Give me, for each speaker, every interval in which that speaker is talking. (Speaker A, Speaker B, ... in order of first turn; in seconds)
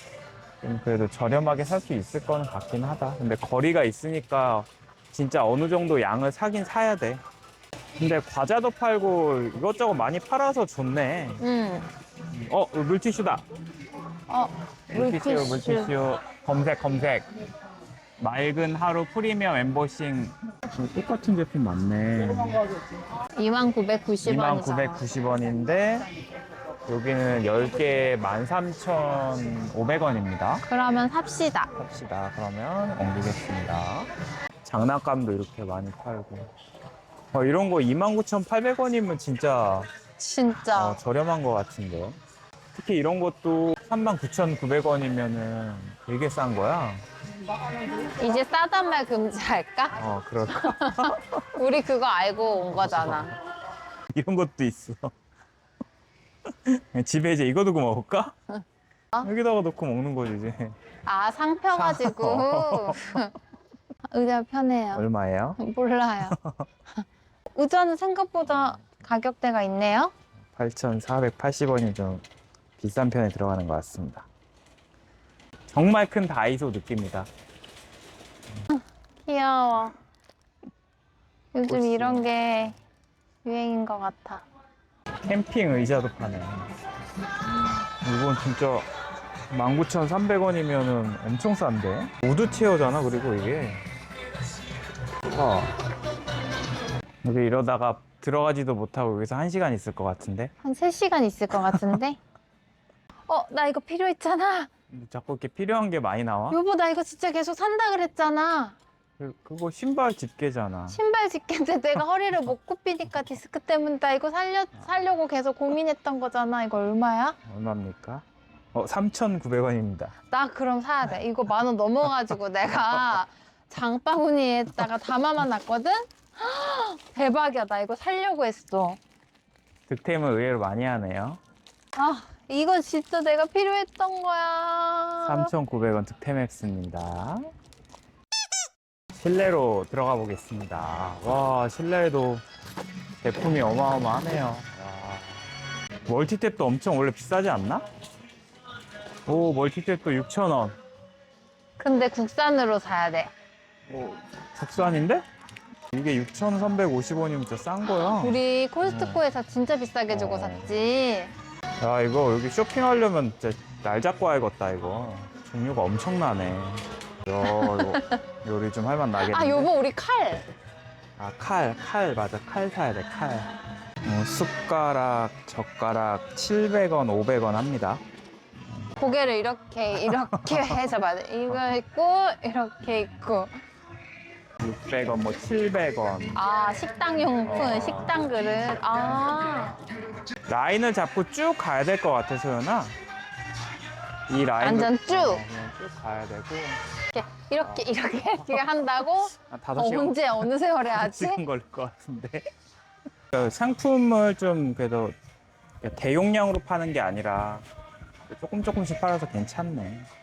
Speaker A: 0.6-7.2, 8.0-11.4, 12.3-13.4, 14.9-17.3, 18.2-22.6, 24.2-26.1, 26.9-30.6, 31.7-34.1, 34.6-36.5, 37.3-39.9, 40.7-42.2, 42.8-47.1, 50.0-51.5, 52.8-53.3, 54.1-55.1, 56.5-58.4, 59.2-60.8, 61.7-63.2, 64.9-65.6, 66.3-66.7, 68.5-69.0, 70.5-72.2, 72.8-74.3, 75.7-77.3, 81.7-82.3, 85.3-86.7, 88.0-88.9, 89.5-93.8, 95.3-95.8, 97.2-100.5, 104.9-106.6, 109.2-111.0, 117.5-120.2, 129.9-131.4, 135.2-137.5, 139.2-142.4, 143.2-145.5, 146.1-147.8, 149.3-150.8, 153.9-155.2, 155.9-159.2, 160.1-160.8, 161.8-169.7, 171.2-173.5, 174.0-178.0, 180.0-180.9, 184.6-186.4, 187.4-188.3, 190.5-193.0, 194.3-196.8, 197.6-202.5, 203.3-205.2, 205.8-207.6, 208.3-210.1
Speaker B: 11.4-11.9, 14.3-15.9, 23.4-25.1, 30.7-31.7, 40.2-41.0, 48.1-53.4, 61.0-63.4, 64.1-65.0, 65.6-66.4, 67.5-70.1, 78.7-80.0, 81.5-82.8, 83.4-84.5, 100.6-102.2, 103.3-104.7, 106.5-108.8, 110.9-117.4, 120.3-129.0, 132.0-135.5, 151.8-153.3, 157.9-161.3, 167.4-168.2, 169.2-170.5, 179.0-183.5, 186.4-189.8, 194.6-195.4, 197.1-201.4